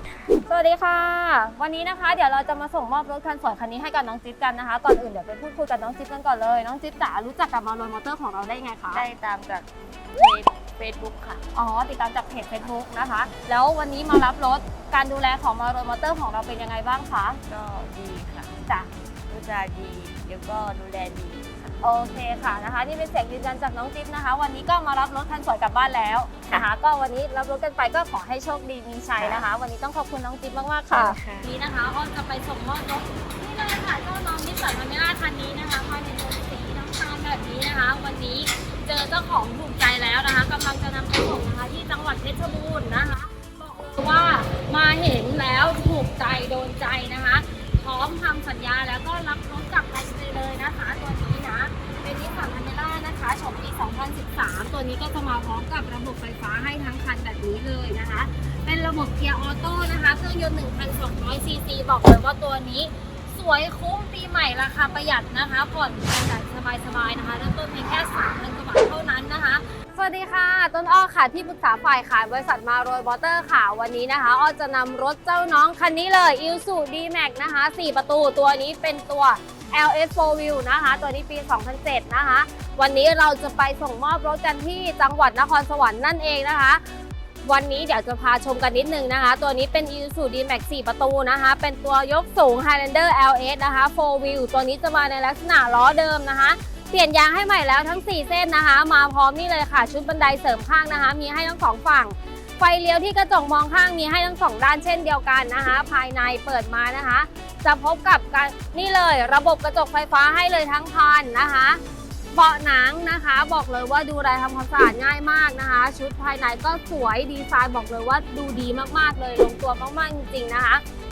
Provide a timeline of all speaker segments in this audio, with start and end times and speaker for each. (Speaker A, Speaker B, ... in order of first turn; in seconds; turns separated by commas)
Speaker A: 0.5-9.1, Speaker B: 8.9-11.4, Speaker A: 11.5-17.4, Speaker B: 17.5-18.6, Speaker B: 19.3-21.8, Speaker A: 21.8-86.8, Speaker B: 29.2-29.5, Speaker B: 30.9-31.5, Speaker A: 87.5-111.8, Speaker A: 112.3-120.8